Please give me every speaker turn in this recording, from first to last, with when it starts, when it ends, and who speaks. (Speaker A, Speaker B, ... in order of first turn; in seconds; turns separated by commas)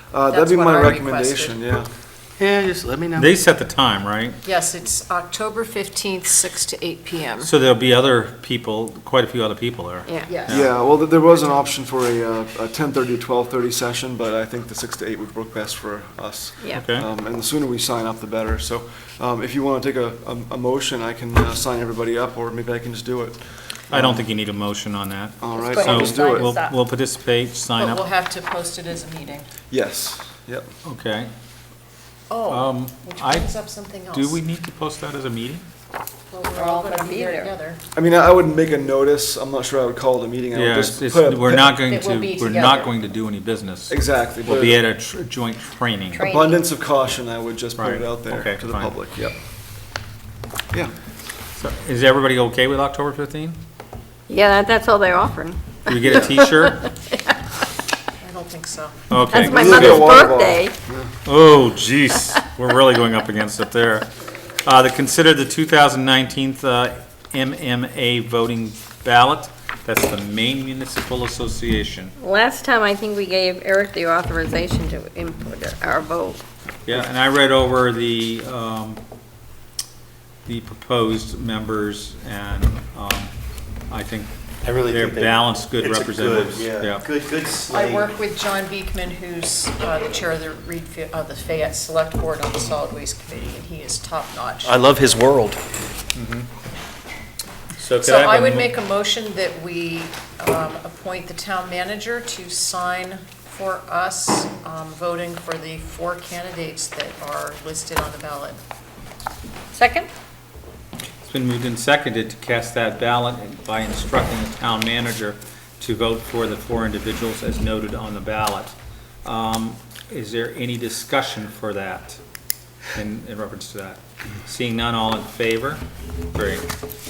Speaker A: 0.1-1.9, Speaker B: 0.3-1.6, Speaker C: 2.4-3.3, Speaker D: 2.6-3.0, Speaker E: 3.1-4.4, Speaker B: 4.4-7.5, Speaker E: 7.4-10.7, Speaker D: 10.1-10.4, Speaker B: 10.2-10.7, Speaker A: 10.5-24.2, Speaker D: 16.6-16.9, Speaker E: 16.7-17.1, Speaker E: 23.9-28.1, Speaker A: 25.4-26.5, Speaker D: 25.5-26.7, Speaker B: 27.8-29.5, Speaker A: 29.7-30.7, Speaker E: 30.8-31.3, Speaker B: 32.3-34.4, Speaker E: 32.5-33.5, Speaker E: 34.1-35.6, Speaker B: 36.3-37.8, Speaker D: 36.5-37.5, Speaker A: 37.9-41.8, Speaker E: 40.5-46.2, Speaker B: 41.8-43.0, Speaker A: 43.9-44.8, Speaker D: 46.1-46.6, Speaker A: 46.2-49.3, Speaker E: 47.8-49.3, Speaker E: 51.6-53.6, Speaker D: 54.3-57.3, Speaker E: 55.9-56.9, Speaker B: 58.2-59.0, Speaker E: 59.1-60.2, Speaker D: 59.3-60.7, Speaker A: 59.3-61.1, Speaker E: 61.2-64.1, Speaker E: 64.6-72.1, Speaker D: 72.2-76.4, Speaker E: 76.9-79.0, Speaker E: 80.5-83.3, Speaker E: 83.9-87.0, Speaker C: 84.7-87.9, Speaker B: 87.7-94.8, Speaker C: 94.7-95.6, Speaker E: 96.1-96.5, Speaker E: 97.8-98.8, Speaker B: 98.0-108.6, Speaker D: 109.7-110.1, Speaker E: 111.2-118.7, Speaker E: 119.2-122.2, Speaker E: 122.9-125.8, Speaker E: 126.3-126.7